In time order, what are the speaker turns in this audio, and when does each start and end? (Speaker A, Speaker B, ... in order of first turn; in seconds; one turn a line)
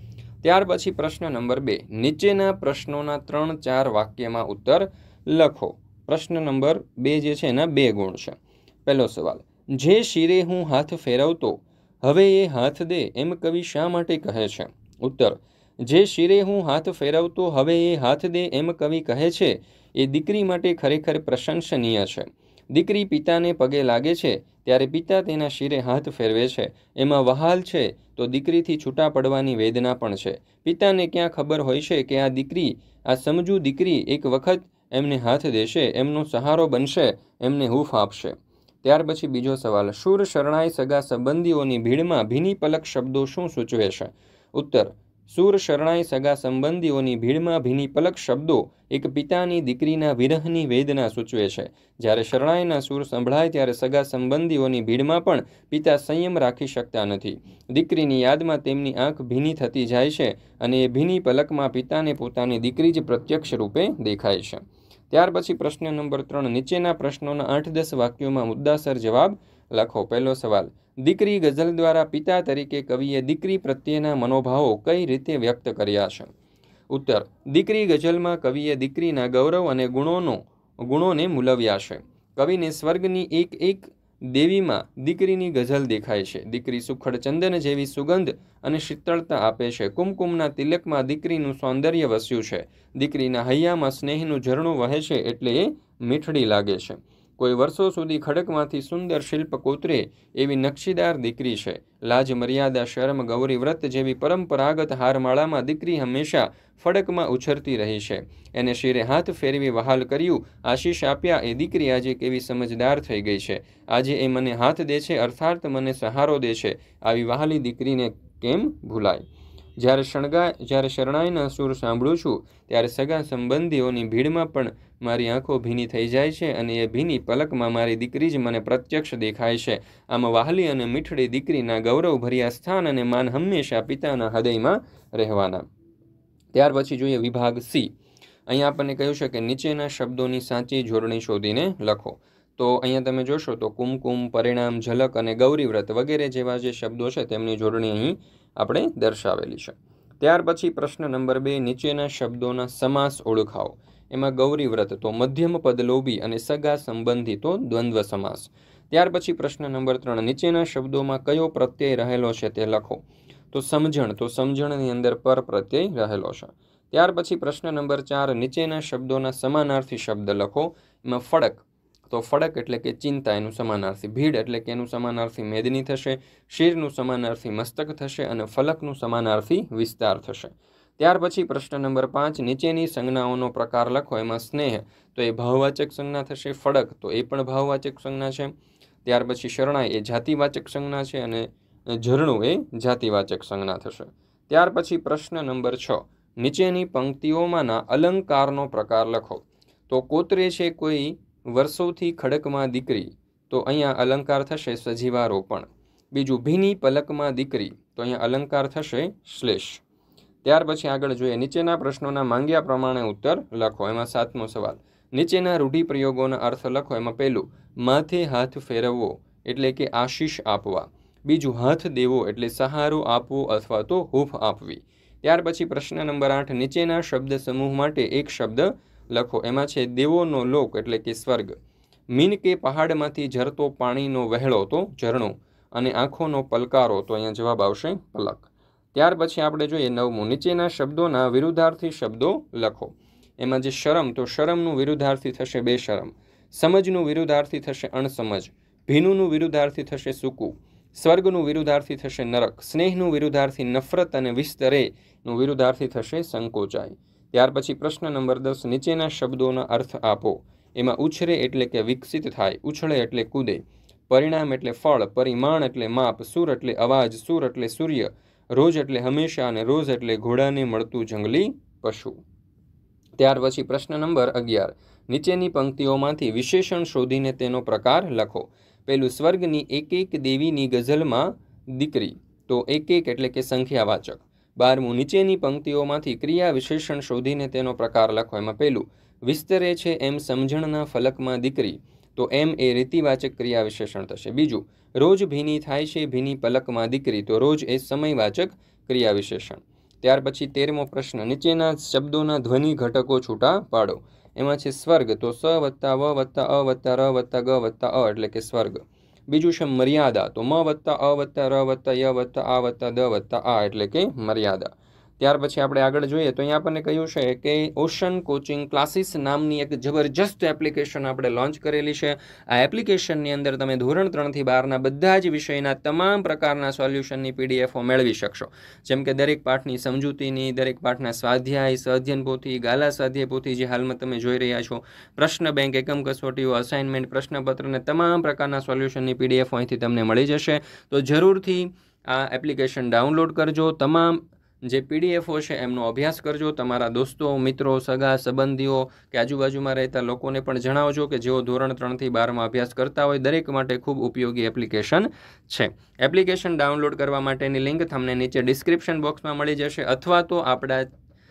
Speaker A: 0.4-76.3
Speaker A: 76.9-119.2
Speaker A: 119.8-135.7
Speaker A: 136.5-137.9
Speaker A: 138.5-188.5
Speaker A: 189.1-209.8
Speaker A: 210.4-231.6
Speaker A: 232.1-272.2
Speaker A: 273.2-360.9